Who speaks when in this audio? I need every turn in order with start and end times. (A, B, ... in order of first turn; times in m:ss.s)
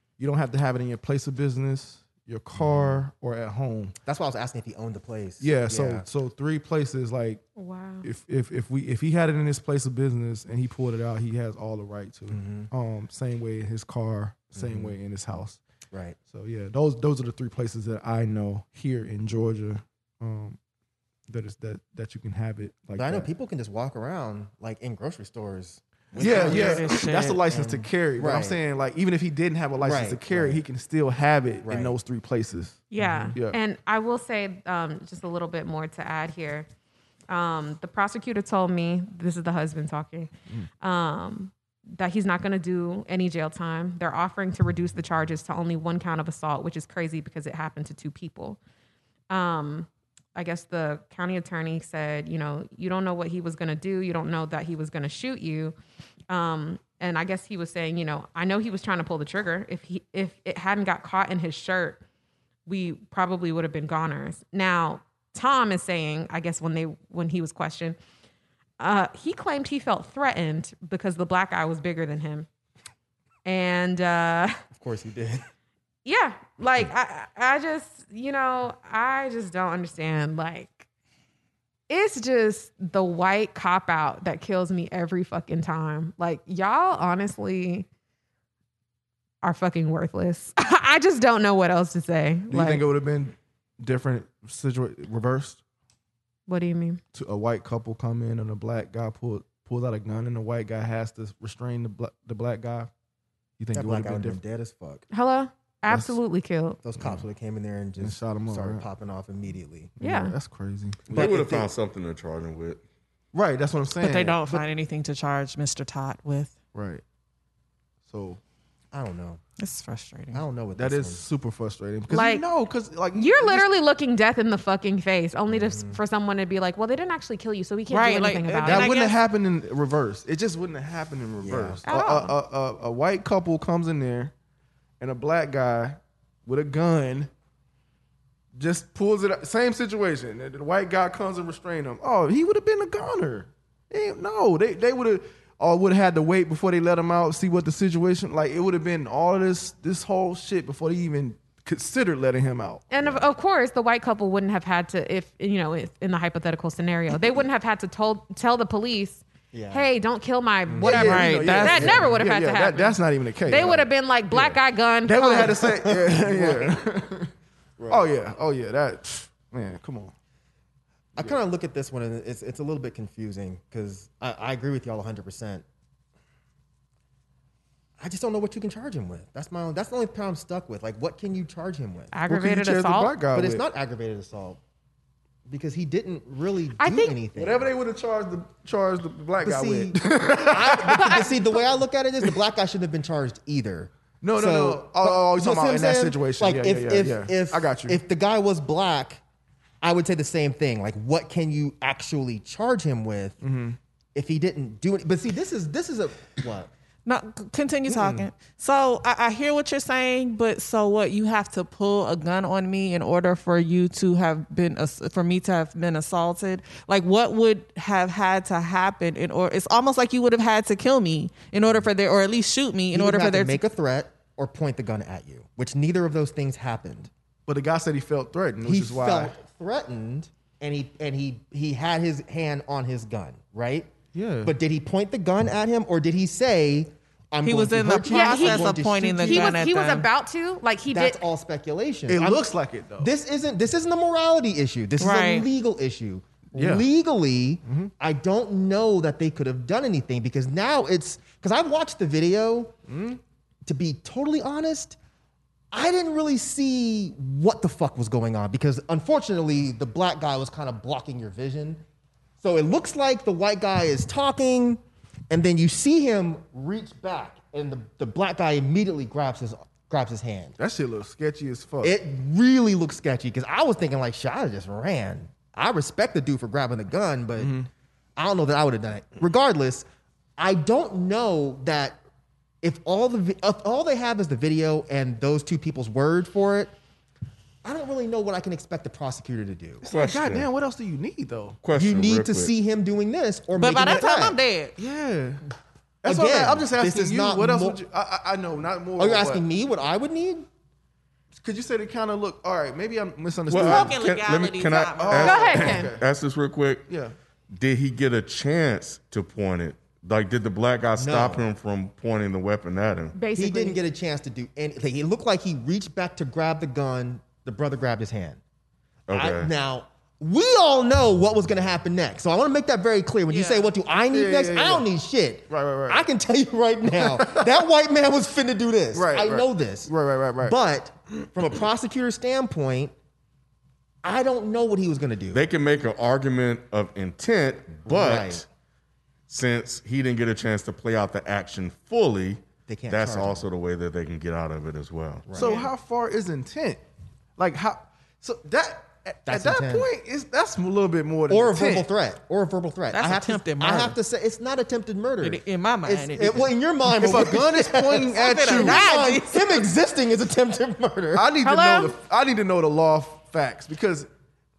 0:00.2-0:03.9 A
0:02.5-0:03.0 B
0:04.0-0:06.0 B
0:05.4-0:07.4 A
0:07.6-0:08.0 C
0:08.0-0:15.6 A
0:12.3-0:12.7 B
0:14.5-0:14.9 B
0:15.9-0:16.2 B
0:16.2-0:20.6 A
0:21.3-0:23.3 A
0:22.9-0:27.0 B
0:26.2-0:33.6 A
0:26.2-0:27.4 D
0:27.5-0:28.6 B
0:29.8-0:30.6 B
0:31.6-0:31.9 B
0:32.9-0:36.6 C
0:33.0-0:33.3 B
0:37.3-0:48.6 C
0:49.3-0:55.7 C
0:56.3-1:02.0 C
1:02.6-1:08.0 C
1:08.8-1:12.5 C
1:13.4-1:14.6 C
1:14.7-1:15.4 B
1:16.0-1:20.9 C
1:21.9-1:27.9 C
1:29.4-1:32.8 C
1:32.5-1:35.6 A
1:36.5-1:37.0 C
1:37.1-1:42.9 A
1:43.6-1:44.4 A
1:43.7-1:45.0 B
1:45.1-1:46.8 C
1:45.9-1:46.1 A
1:46.8-1:49.9 B
1:48.0-1:48.8 A
1:50.0-1:51.4 A
1:50.0-1:50.3 C
1:51.1-1:52.8 E
1:51.1-1:51.7 B
1:53.3-1:54.6 A
1:54.0-1:56.5 D
1:56.7-1:57.0 A
1:58.1-1:58.4 A
1:58.9-1:59.4 B
1:59.6-2:00.4 D
2:00.3-2:01.2 B
2:00.8-2:03.7 A
2:02.1-2:02.5 C
2:03.1-2:08.9 C
2:05.5-2:06.0 B
2:07.9-2:09.2 D
2:08.6-2:14.3 A
2:11.4-2:11.8 B
2:11.9-2:12.4 C
2:15.0-2:17.3 A
2:18.5-2:32.9 A
2:32.9-2:45.6 C
2:39.5-2:39.9 B
2:40.7-2:41.1 B
2:40.8-2:47.3 A
2:40.8-2:42.0 D
2:41.8-2:42.1 B
2:45.4-2:46.7 B
2:47.8-2:48.1 B
2:47.9-2:50.1 A
2:51.2-2:55.6 B
2:58.0-3:02.1 B
3:02.1-3:03.2 C
3:02.3-3:03.6 A
3:03.3-3:04.6 B
3:05.5-3:07.7 B
3:06.8-3:07.2 C
3:07.3-3:11.3 A
3:09.4-3:19.2 B
3:10.9-3:11.3 C
3:14.2-3:18.0 A
3:19.8-3:23.4 B
3:23.4-3:23.8 A
3:24.1-3:26.7 B
3:27.0-3:43.6 D
3:42.9-3:47.1 B
3:47.5-3:49.4 A
3:48.6-3:53.9 B
3:54.1-3:54.5 A
3:54.4-3:59.6 B
3:57.4-4:00.1 D
3:58.0-4:01.2 C
4:00.9-4:02.5 B
4:02.1-4:03.1 A
4:03.0-4:12.7 B
4:05.0-4:05.5 D
4:06.5-4:06.8 A
4:12.9-4:13.2 A
4:13.6-4:15.0 B
4:15.7-4:21.8 B
4:22.4-4:30.6 B
4:30.6-4:31.9 A
4:31.8-4:37.6 B
4:37.4-4:37.7 A
4:38.2-4:39.8 B
4:40.4-4:42.0 B
4:42.6-4:46.7 B
4:47.6-4:49.8 B
4:49.8-4:51.6 A
4:49.9-4:50.5 E
4:51.6-4:52.5 E
4:51.7-4:54.4 B
4:53.6-4:54.7 D
4:54.8-4:55.4 A
4:56.0-4:59.4 A
4:56.0-4:57.8 B
4:59.0-5:00.5 B
5:01.4-5:04.0 A
5:03.5-5:06.9 E
5:03.5-5:05.4 D
5:05.0-5:06.0 A
5:05.2-5:05.9 C
5:06.9-5:07.1 A
5:07.5-5:13.1 E
5:11.0-5:11.4 B
5:13.1-5:13.8 C
5:13.3-5:18.4 B
5:19.1-5:19.5 E
5:19.1-5:29.9 B
5:23.3-5:23.7 D
5:24.1-5:24.8 A
5:25.5-5:26.0 A
5:26.9-5:27.5 A
5:28.9-5:30.5 A
5:30.4-5:32.9 B
5:34.0-5:35.4 B
5:35.3-5:38.4 E
5:37.8-5:38.4 B
5:39.3-5:45.3 E
5:42.7-5:43.5 B
5:45.3-5:45.5 B
5:45.3-5:46.8 A
5:45.4-5:45.7 D
5:47.4-5:51.9 A
5:49.3-5:49.9 B
5:51.3-6:01.3 B
5:52.9-5:54.0 D
5:55.2-5:56.5 D
5:56.8-5:58.8 A
5:58.1-5:59.6 D
6:01.1-6:04.1 A
6:01.4-6:02.0 C